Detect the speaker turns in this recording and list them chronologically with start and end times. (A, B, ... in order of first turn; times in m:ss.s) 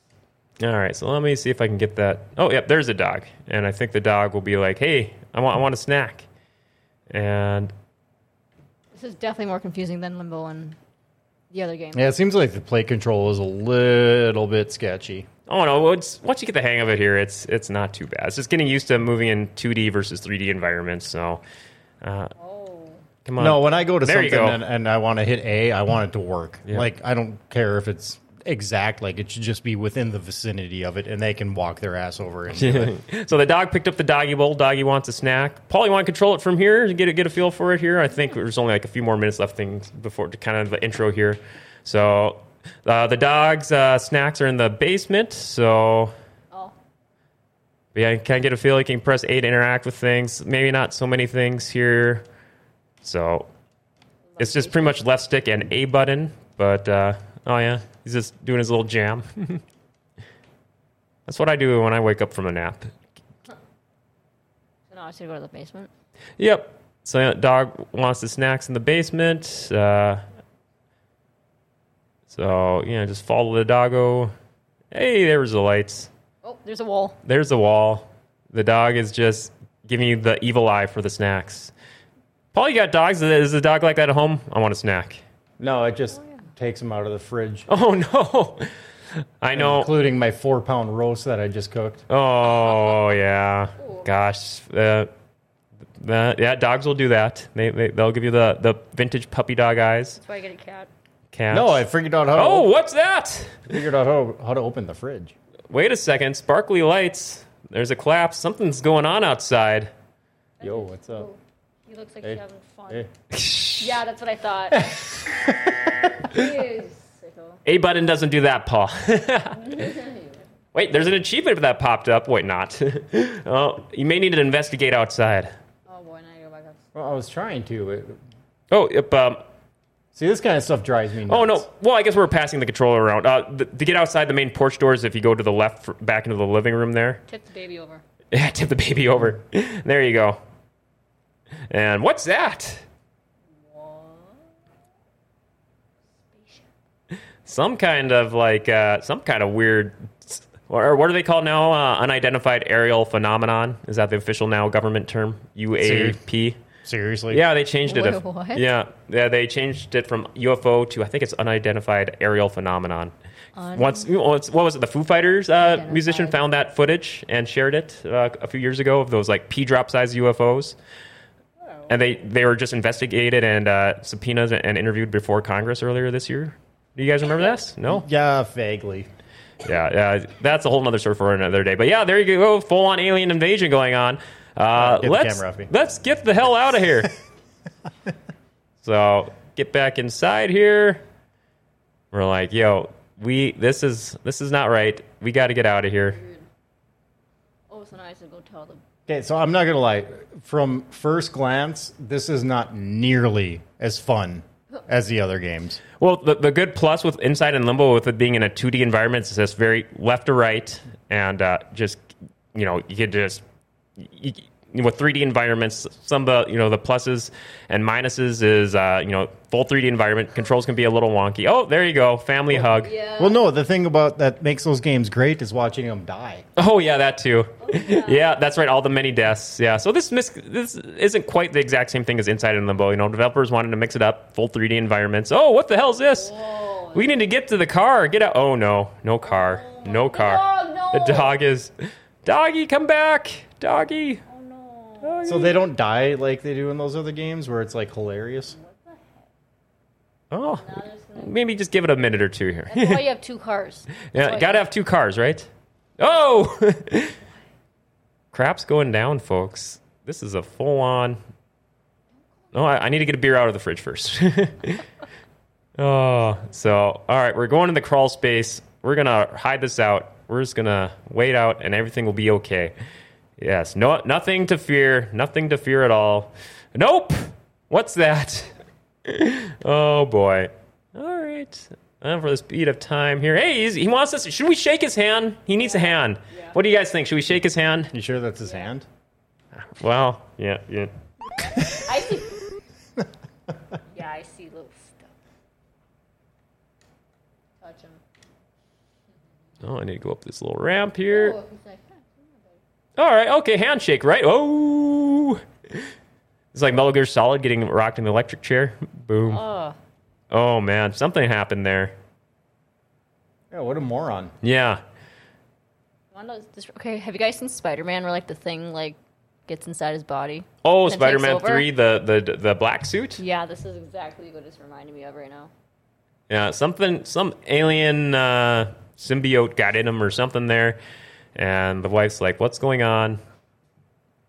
0:00.6-0:06.3 A
0:07.1-0:07.7 A
0:08.9-0:10.8 B
0:11.5-0:12.1 B
0:11.9-0:15.3 C
0:15.5-0:21.4 A
0:22.0-0:22.3 A
0:22.4-0:23.0 B
0:23.2-0:24.6 A
0:23.4-0:33.0 C
0:32.5-0:46.1 A
0:48.0-0:52.2 A
0:53.0-0:53.5 A
0:54.4-0:54.9 B
0:54.4-0:59.6 A
1:01.3-1:02.9 A
1:04.9-1:05.9 B
1:06.4-1:10.2 A
1:12.3-1:14.3 A
1:14.9-1:16.1 A
1:16.4-1:17.2 B
1:17.2-1:21.7 A
1:22.5-1:25.2 A
1:25.6-1:27.7 C
1:27.7-1:28.7 A
1:29.4-1:29.9 A
1:29.5-1:32.0 C
1:32.1-1:35.1 A
1:33.8-1:34.1 B
1:36.0-1:40.2 A
1:40.2-1:40.9 B
1:41.3-1:43.8 A
1:41.5-1:42.7 C
1:43.7-1:45.3 C
1:45.7-1:49.9 A
1:50.6-1:53.1 B
1:50.6-1:51.3 C
1:52.2-1:53.1 C
1:53.3-1:53.9 A
1:53.8-1:55.1 B
1:54.8-1:56.3 C
1:56.2-1:57.6 B
1:57.6-2:00.0 A
1:59.6-2:00.4 B
2:00.7-2:05.5 A
2:05.9-2:06.8 B
2:06.9-2:08.2 C
2:08.7-2:09.4 A
2:10.1-2:11.7 C
2:11.3-2:17.2 A
2:17.3-2:18.0 B
2:18.3-2:20.4 A
2:21.7-2:22.8 A
2:23.6-2:24.4 B
2:26.2-2:26.7 B
2:27.5-2:36.6 A
2:35.8-2:36.2 C
2:36.8-2:37.4 C
2:37.3-2:43.1 A
2:37.9-2:38.7 B
2:43.6-2:44.1 B
2:43.7-2:50.8 A
2:45.6-2:46.4 B
2:51.9-2:58.0 A
2:57.9-2:59.1 C
2:59.6-3:07.1 A
3:04.8-3:05.7 C
3:08.8-3:11.0 A
3:12.1-3:16.2 A
3:16.1-3:16.4 B
3:17.7-3:18.8 B
3:19.1-3:25.8 C
3:26.0-3:32.0 A
3:32.5-3:33.4 A
3:34.0-3:42.9 A
3:42.6-3:43.4 B
3:43.2-3:46.5 C
3:46.6-3:56.3 A
3:47.6-3:48.3 B
3:56.0-3:57.2 B
3:56.9-4:01.7 A
3:59.3-4:01.3 B
4:02.2-4:04.2 A
4:04.3-4:05.4 B
4:05.0-4:05.6 A
4:05.3-4:08.6 C
4:08.5-4:09.2 B
4:10.3-4:13.0 A
4:10.6-4:11.3 B
4:12.7-4:14.6 B
4:14.1-4:15.5 A
4:16.0-4:17.2 A
4:18.3-4:21.2 A
4:22.5-4:24.8 A
4:25.8-4:32.7 A
4:33.4-4:38.5 A
4:39.0-4:47.9 A
4:45.6-4:46.6 B
4:47.9-4:48.9 C
4:49.6-4:50.9 A
4:51.6-4:52.3 B
4:53.9-4:55.1 B
4:57.6-4:58.0 B
4:59.6-5:01.4 A
5:01.1-5:02.6 B
5:03.0-5:05.9 A
5:06.5-5:09.4 A
5:09.3-5:09.8 B
5:10.3-5:12.0 A
5:13.5-5:14.3 C
5:14.4-5:14.8 A
5:16.1-5:21.7 B
5:20.6-5:23.2 A
5:23.2-5:25.5 B
5:26.3-5:30.8 A
5:31.4-5:33.2 A